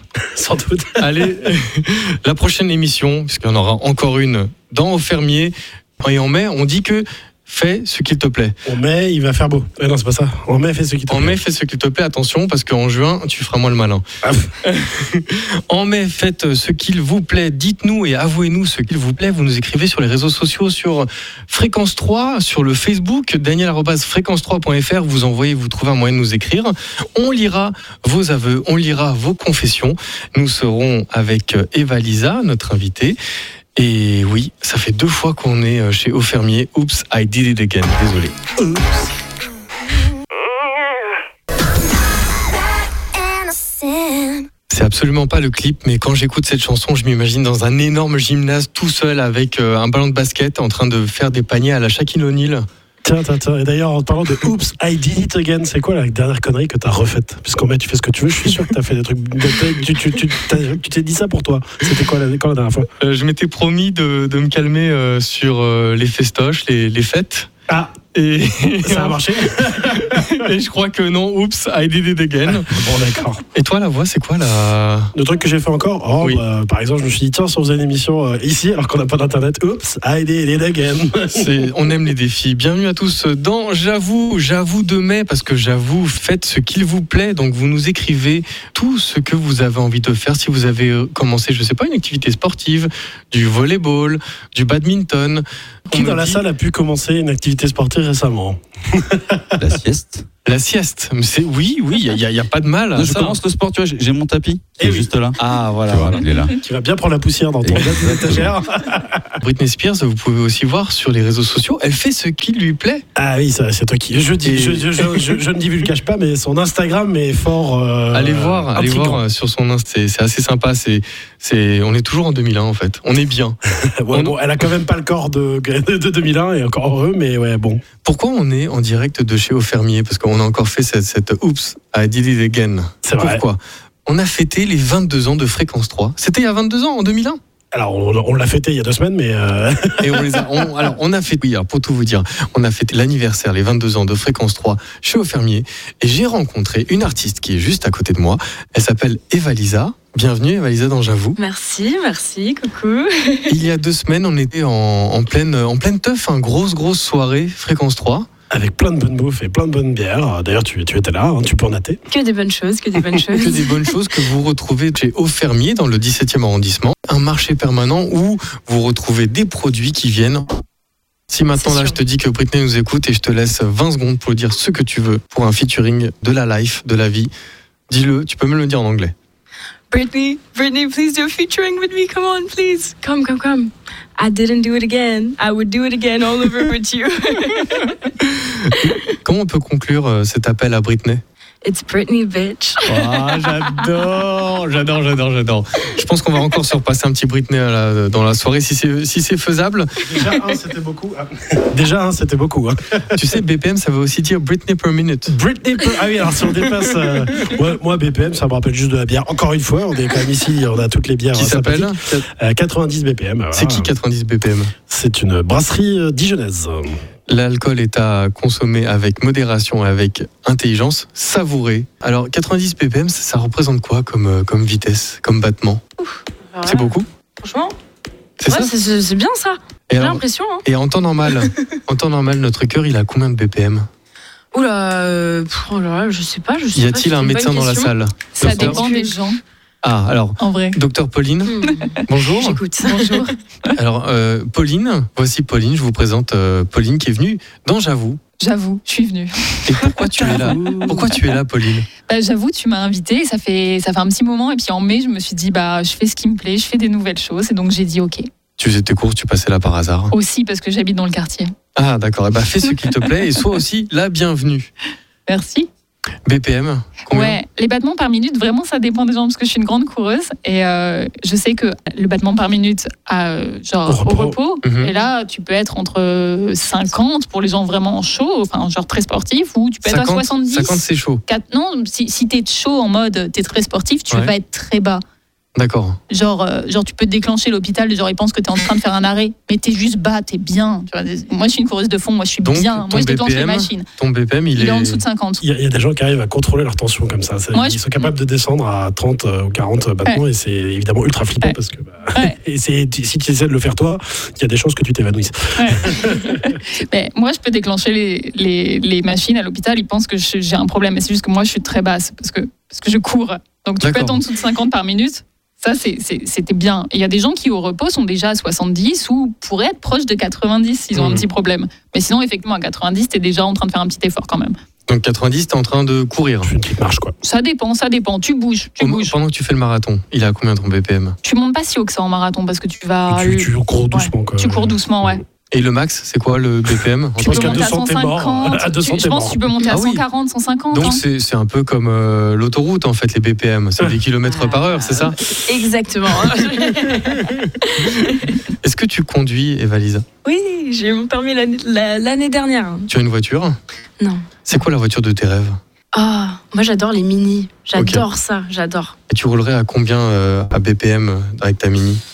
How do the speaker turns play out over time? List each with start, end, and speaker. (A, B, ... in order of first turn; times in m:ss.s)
0:00.2-0:01.4 A
0:01.0-0:08.5 B
0:08.6-0:11.4 A
0:11.1-0:14.0 B
0:14.2-0:14.5 A
0:14.6-0:33.2 B
0:33.8-0:38.5 B
0:38.6-0:38.9 A
0:44.7-0:52.6 B
0:53.0-1:02.9 A
1:03.0-1:07.5 B
1:07.7-1:08.0 A
1:08.1-1:12.8 B
1:08.8-1:10.4 A
1:12.6-1:13.4 A
1:13.5-1:15.1 B
1:15.1-1:21.7 A
1:21.3-1:36.4 B
1:35.9-1:39.6 A
1:39.6-1:40.2 C
1:40.4-1:43.4 B
1:42.9-1:45.4 C
1:44.8-1:45.1 A
1:45.4-1:46.2 B
1:45.9-1:46.6 C
1:46.6-1:49.4 A
1:47.6-1:48.5 C
1:49.4-1:53.0 B
1:53.2-1:59.2 A
1:54.4-1:55.4 B
1:58.1-2:03.6 B
2:03.8-2:07.8 A
2:04.1-2:04.4 B
2:08.0-2:17.4 B
2:13.0-2:13.4 A
2:17.7-2:20.7 A
2:20.0-2:31.4 B
2:31.4-2:33.6 D
2:33.5-2:38.3 B
2:38.5-2:42.0 A
2:42.1-2:43.8 D
2:43.3-2:50.6 B
2:51.3-2:57.3 B
2:51.6-2:52.0 D
2:57.9-2:59.1 B
2:59.9-3:08.1 D
3:08.2-3:11.2 B
3:11.6-3:13.1 D
3:12.8-3:20.2 B
3:20.0-3:23.1 A
3:23.1-3:25.4 B
3:25.3-3:33.9 A
3:31.3-3:32.2 B
3:33.5-3:34.7 B
3:34.9-3:37.0 A
3:37.3-3:45.8 B
3:46.0-3:47.8 D
3:46.6-3:47.1 B
3:48.4-3:48.7 B
3:48.4-3:50.6 D
3:49.9-3:53.9 B
3:54.5-3:59.1 D
3:56.7-3:58.8 B
3:58.4-3:59.4 E
3:59.8-4:02.6 B
4:00.4-4:00.8 E
4:01.4-4:03.3 D
4:01.7-4:02.0 E
4:02.8-4:03.7 E
4:03.7-4:08.2 B
4:08.4-4:10.3 E
4:09.6-4:11.9 B
4:10.2-4:11.1 D
4:10.4-4:10.9 A
4:12.1-4:18.3 E
4:18.6-4:20.1 B
4:20.1-4:21.5 E
4:21.7-4:24.7 B
4:25.3-4:25.7 E
4:26.2-4:27.4 B
4:27.1-4:45.0 E
4:33.8-4:34.4 A
4:34.6-4:34.9 B
4:39.8-4:41.2 B
4:45.6-4:46.0 B
4:46.1-4:53.8 E
4:52.4-4:55.0 B
4:54.5-4:55.4 E
4:55.4-5:06.6 A
4:57.5-4:57.8 E
5:05.6-5:24.5 E
5:13.8-5:14.2 B
5:20.9-5:21.2 A
5:24.9-5:26.5 B
5:26.4-5:27.1 A
5:27.2-5:29.1 E
5:28.8-5:31.2 B
5:31.2-5:35.2 E
5:33.1-5:35.1 A
5:35.5-5:37.7 B
5:37.2-5:39.6 A
5:37.2-5:41.0 E
5:39.7-5:40.0 B
5:40.7-5:45.4 B
5:44.2-5:48.4 D
5:47.8-5:50.0 B
5:50.2-5:52.9 D
5:52.9-5:53.6 B
5:54.0-5:54.3 D
5:54.4-5:55.6 B
5:55.9-5:58.9 D
5:57.7-5:58.0 B
5:59.1-6:02.0 B